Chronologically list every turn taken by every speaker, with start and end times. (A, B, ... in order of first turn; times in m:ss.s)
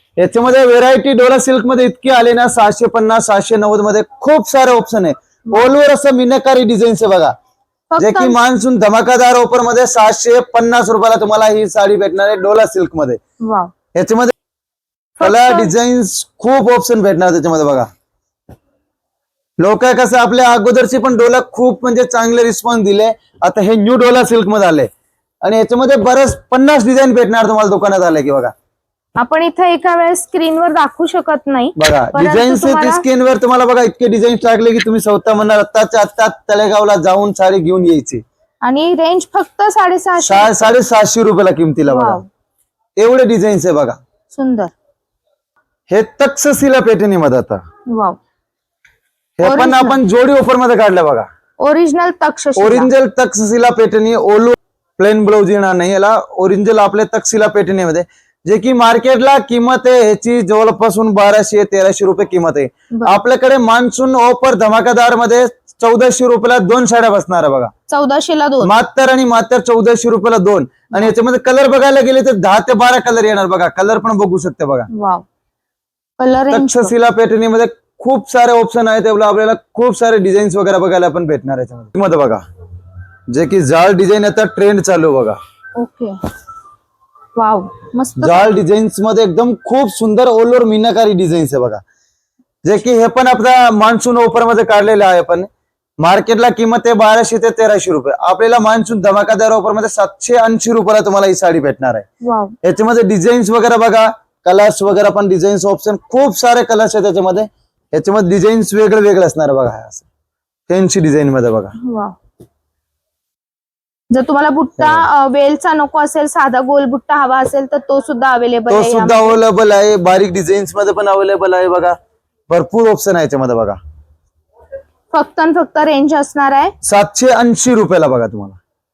0:00.2-0:07.3 A
0:07.9-0:08.4 B
0:08.0-0:13.2 A
0:13.4-0:13.7 B
0:13.9-0:14.3 A
0:15.2-0:15.7 B
0:15.2-0:17.9 A
0:19.6-0:24.9 A
0:25.4-0:28.5 A
0:29.2-0:33.0 B
0:31.8-0:38.2 A
0:38.6-0:40.8 B
0:40.2-0:42.2 A
0:41.9-0:42.3 B
0:43.0-0:44.0 A
0:44.3-0:44.7 B
0:45.9-0:47.6 A
0:47.9-0:48.2 B
0:49.4-0:51.3 A
0:49.4-0:50.0 B
0:51.6-0:52.9 B
0:52.6-1:07.7 A
1:02.9-1:03.2 B
1:07.9-1:08.7 B
1:08.6-1:14.9 A
1:14.9-1:15.2 B
1:16.2-1:16.9 B
1:16.5-1:22.4 A
1:23.3-1:25.4 A
1:25.8-1:26.2 B
1:27.4-1:28.6 B
1:28.2-1:31.8 A
1:32.6-1:35.5 A
1:36.0-1:42.1 A
1:42.2-1:42.6 B
1:42.6-1:50.1 A
1:50.7-1:51.8 A
1:51.8-1:52.2 B
1:54.1-1:59.4 B
1:54.8-1:55.1 A
1:58.7-2:02.0 A
2:02.5-2:03.8 A
2:05.1-2:06.7 B
2:06.8-2:08.6 A